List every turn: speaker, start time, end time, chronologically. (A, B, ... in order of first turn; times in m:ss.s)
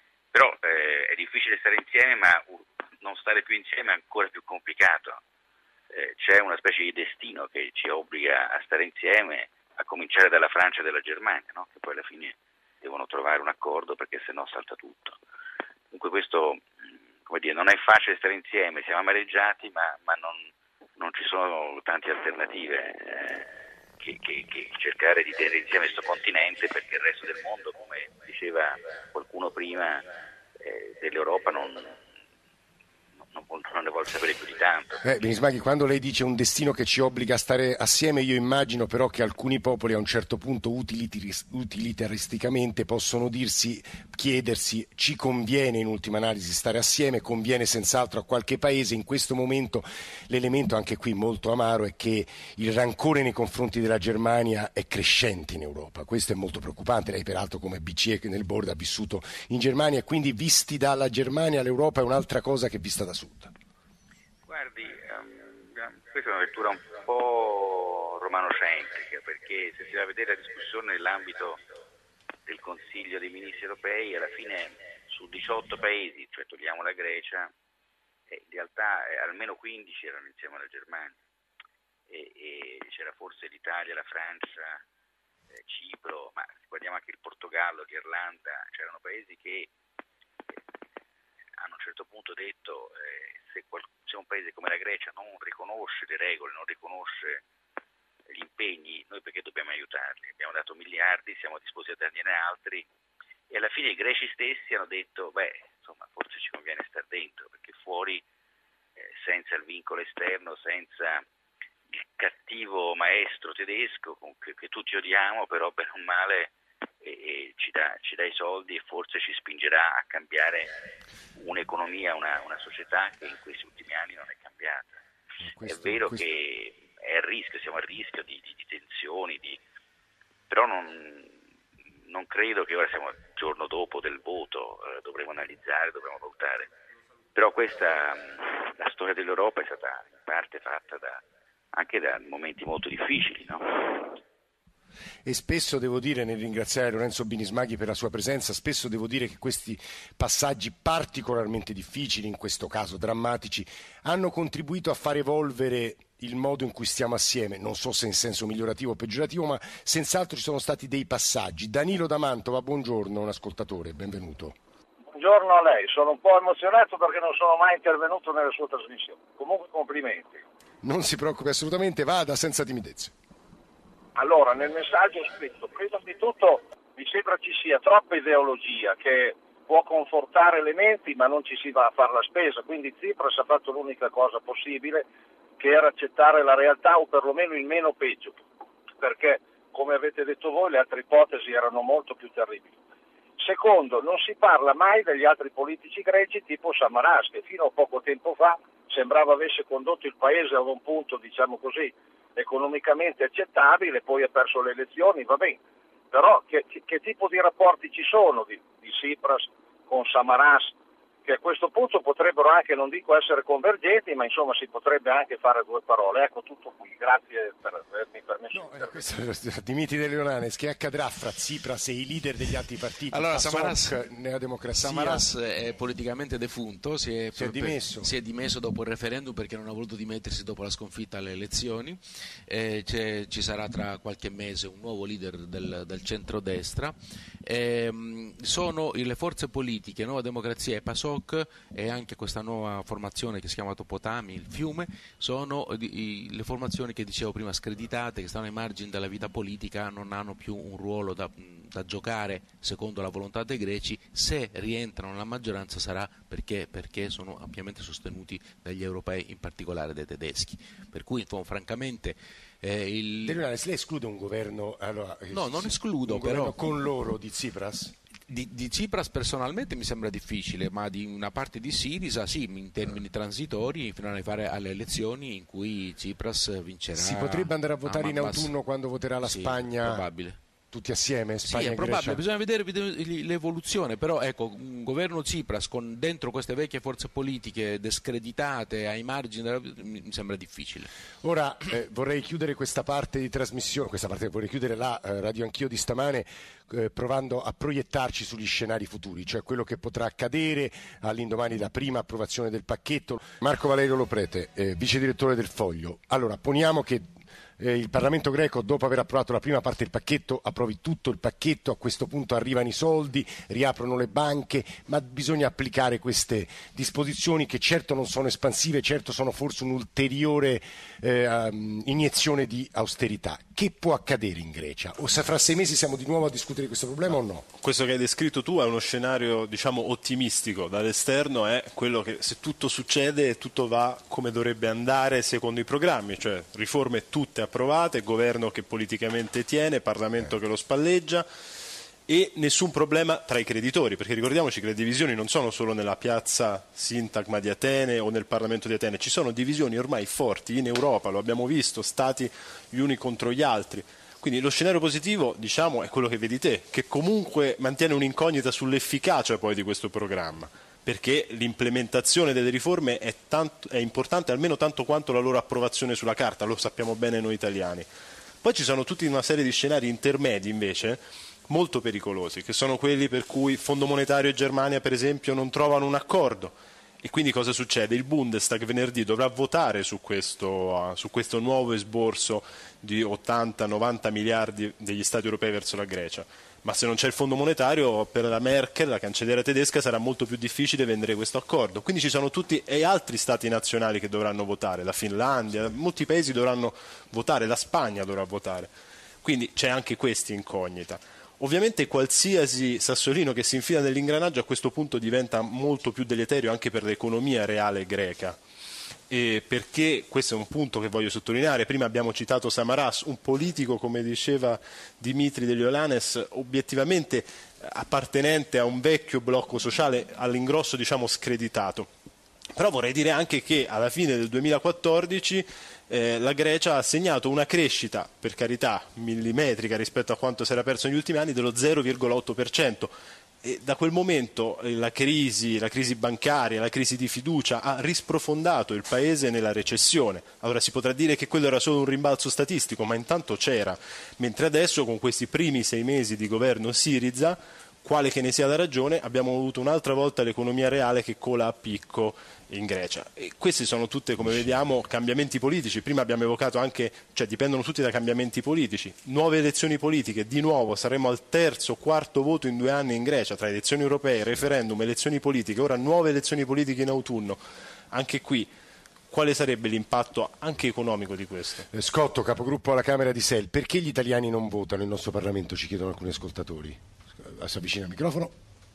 0:00.3-0:05.2 A
0:05.9-0:15.2 A
0:15.9-0:16.6 A
0:17.3-0:23.5 A
0:24.0-0:30.1 A
0:30.6-0:31.9 A
0:33.3-0:35.0 A
0:35.0-1:03.5 B
1:04.5-1:11.6 A
1:12.5-1:17.5 A
1:18.3-1:21.2 A
1:22.1-1:24.8 A
1:25.5-1:29.7 A
1:31.6-1:37.4 A
1:38.3-1:42.9 A
1:43.5-1:48.2 A
1:49.0-1:51.2 A
1:52.0-2:00.7 A
2:01.4-2:05.0 A
2:05.4-2:06.4 B
2:05.7-2:09.6 A
2:10.5-2:11.4 A
2:12.1-2:16.7 A
2:17.4-2:21.2 A
2:21.7-2:24.2 A
2:25.2-2:44.6 B
2:45.1-2:50.4 C
2:50.8-2:53.1 B
2:54.2-3:05.1 C
3:05.6-3:08.4 C
3:09.0-3:12.7 C
3:13.4-3:25.6 C
3:26.1-3:30.7 C
3:31.3-3:39.0 C
3:38.5-3:45.3 B
3:43.1-3:44.0 D
3:44.7-4:23.4 D
3:47.4-3:48.1 B
4:23.2-4:27.9 B
4:25.3-4:26.6 D
4:28.3-4:38.5 D
4:37.0-4:40.0 B
4:39.2-4:40.4 D
4:40.7-4:42.2 B
4:41.4-4:50.9 D
4:51.2-5:07.1 B
5:07.6-5:27.4 B
5:27.6-5:41.2 E
5:42.1-6:07.9 E
6:08.4-6:38.7 E
6:39.2-6:48.4 E
6:49.1-7:01.9 E
7:02.6-7:48.5 E
7:49.1-7:51.6 E
7:51.7-7:58.3 B